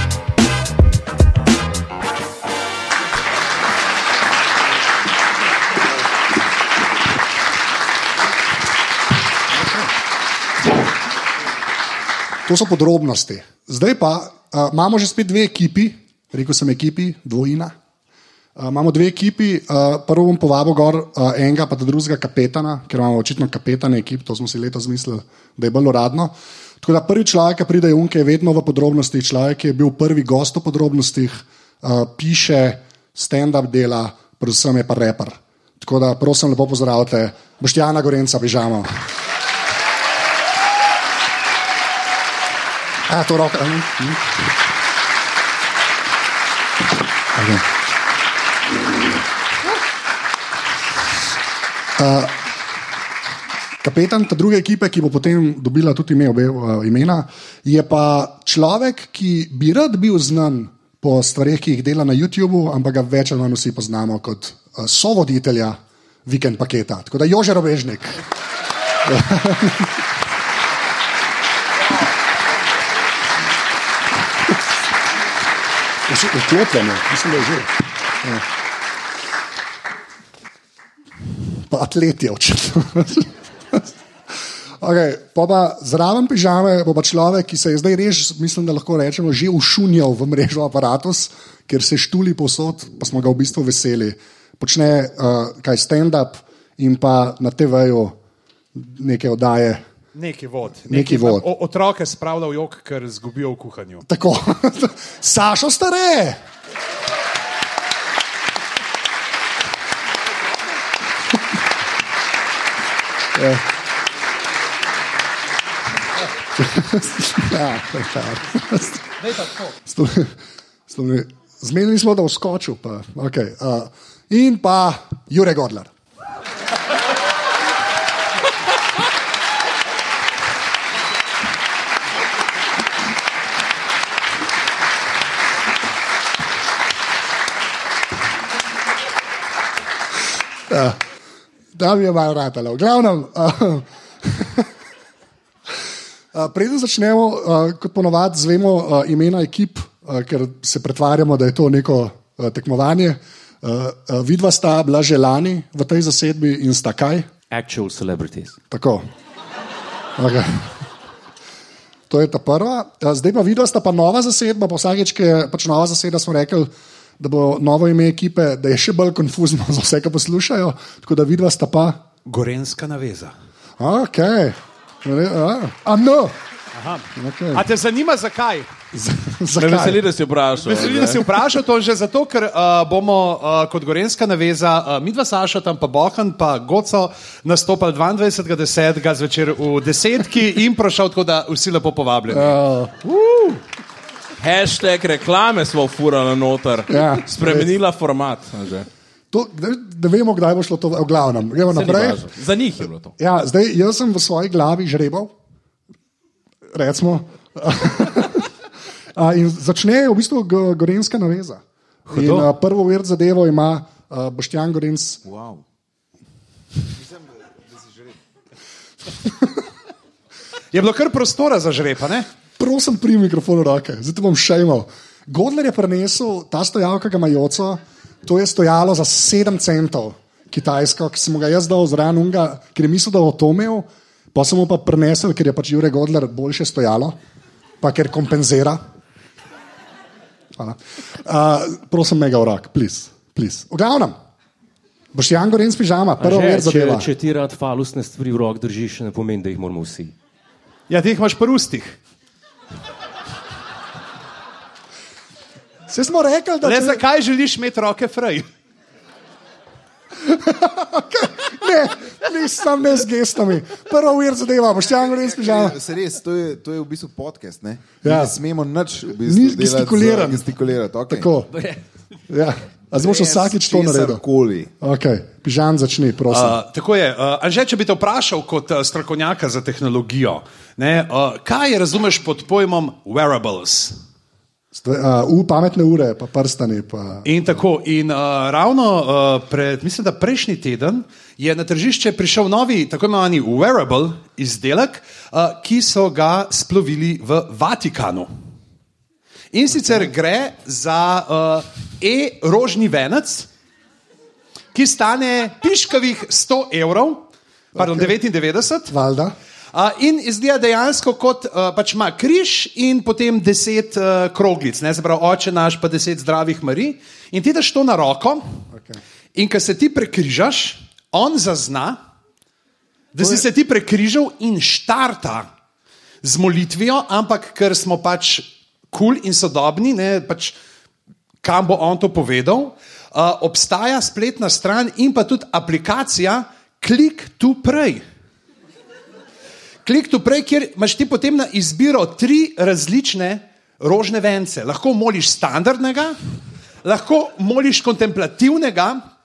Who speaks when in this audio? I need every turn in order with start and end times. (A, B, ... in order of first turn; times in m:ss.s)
0:12.5-0:17.8 A
0:18.6-0:38.9 A
0:43.1-0:44.2 A
0:47.3-0:47.6 A
0:52.0-0:52.4 A
0:53.8-1:08.2 A
1:09.0-1:10.0 A
1:16.1-1:18.4 A
1:21.7-1:23.9 A
1:24.8-1:38.2 A
1:38.8-1:39.8 A
1:40.1-1:44.1 B
1:40.9-1:41.5 A
1:44.1-1:46.4 A
1:53.4-1:53.6 A
1:56.6-2:00.4 A
2:00.9-2:05.9 A
2:20.7-2:21.0 A
2:21.7-2:24.7 A
2:26.3-2:37.3 A
2:37.5-2:38.6 C
2:38.7-2:39.0 A
2:40.2-2:40.7 A
2:42.1-2:52.0 A
2:52.3-2:53.3 B
2:53.8-2:56.4 A
2:56.7-2:58.7 B
2:57.2-2:57.6 A
2:58.9-3:00.0 A
2:59.6-3:01.2 D
3:00.6-3:12.6 B
3:12.3-3:13.0 A
3:13.3-3:13.6 D
3:14.4-3:18.9 D
3:16.9-3:17.7 A
3:19.3-3:22.3 A
3:21.7-3:23.1 D
3:23.2-3:25.3 A
3:26.7-3:28.5 A
3:29.2-3:35.2 A
3:32.1-3:32.5 B
3:35.2-3:35.6 E
3:37.7-3:38.1 E
3:39.2-3:39.6 A
3:40.7-3:42.3 B
3:42.6-3:57.2 A
3:57.8-3:58.8 A
4:00.6-4:04.2 A
4:05.1-4:07.1 A
4:06.2-4:10.1 C
4:10.9-4:12.0 B
4:15.9-4:17.0 A
4:16.6-4:18.5 B
4:20.2-4:25.8 A
4:25.1-4:31.3 E
4:28.0-4:28.4 A
4:29.2-4:30.4 A
4:31.1-4:31.5 A
4:31.5-4:31.8 C
4:32.3-4:34.2 A
4:32.9-4:34.7 E
4:34.8-4:36.6 A
4:36.3-4:44.0 B
4:44.7-4:47.3 A
4:47.2-4:58.3 B
4:59.5-5:03.5 B
5:04.7-5:08.9 B
5:07.8-5:08.1 A
5:08.9-5:09.4 A
5:09.7-5:18.4 B
5:19.4-5:22.0 B
5:23.2-5:25.5 B
5:26.2-5:30.6 B
5:31.4-5:38.0 B
5:39.8-5:46.2 B
5:46.8-5:49.0 B